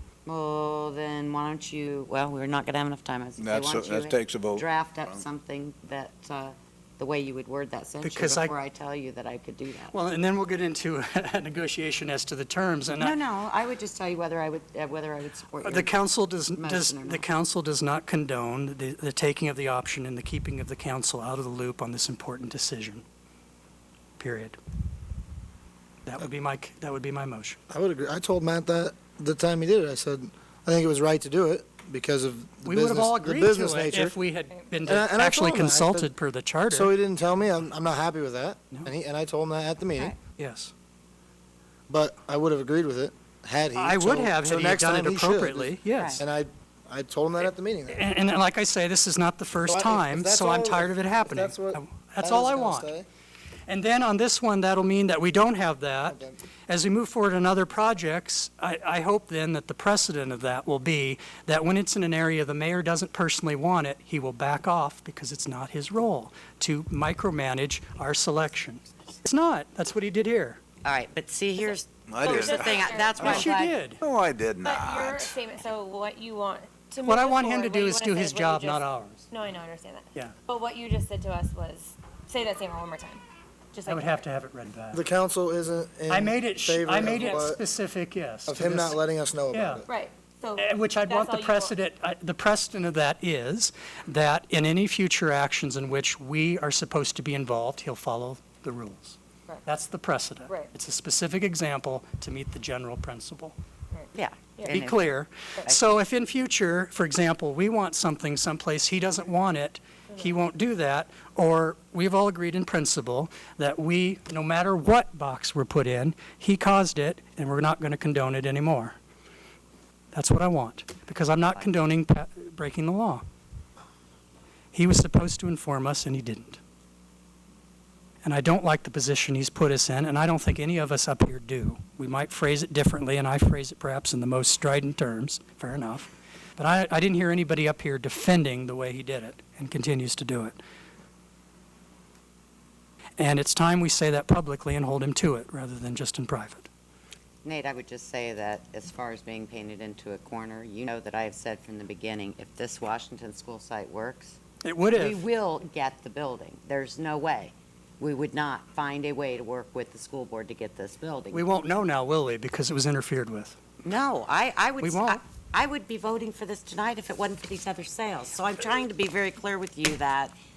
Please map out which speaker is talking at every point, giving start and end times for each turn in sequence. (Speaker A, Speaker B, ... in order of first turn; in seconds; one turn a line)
Speaker A: 0.2-10.0
Speaker B: 3.4-5.2
Speaker C: 8.0-8.5
Speaker C: 9.9-13.2
Speaker A: 12.9-15.9
Speaker C: 15.6-23.0
Speaker A: 16.6-17.2
Speaker C: 24.2-24.6
Speaker C: 26.1-27.6
Speaker D: 27.7-34.1
Speaker C: 32.6-36.9
Speaker D: 34.8-36.1
Speaker D: 36.7-40.1
Speaker C: 40.4-40.7
Speaker D: 41.9-48.0
Speaker C: 43.7-46.2
Speaker A: 45.9-46.2
Speaker C: 47.9-52.9
Speaker D: 49.7-53.0
Speaker C: 53.7-70.6
Speaker D: 56.1-56.4
Speaker A: 70.8-73.8
Speaker B: 72.1-75.4
Speaker E: 72.2-73.5
Speaker C: 73.2-74.0
Speaker E: 74.6-83.2
Speaker C: 77.0-79.3
Speaker E: 83.7-84.2
Speaker C: 83.9-85.0
Speaker D: 84.9-87.6
Speaker C: 86.1-89.0
Speaker D: 88.5-89.8
Speaker C: 89.5-89.8
Speaker E: 89.9-91.8
Speaker C: 90.5-103.5
Speaker E: 103.9-104.8
Speaker A: 104.1-105.0
Speaker C: 104.7-118.9
Speaker C: 120.1-123.2
Speaker C: 124.7-126.6
Speaker C: 128.2-140.6
Speaker C: 143.2-146.7
Speaker A: 147.4-154.4
Speaker C: 154.6-155.2
Speaker A: 154.9-161.5
Speaker C: 161.3-163.6
Speaker A: 163.8-170.3
Speaker C: 164.8-165.2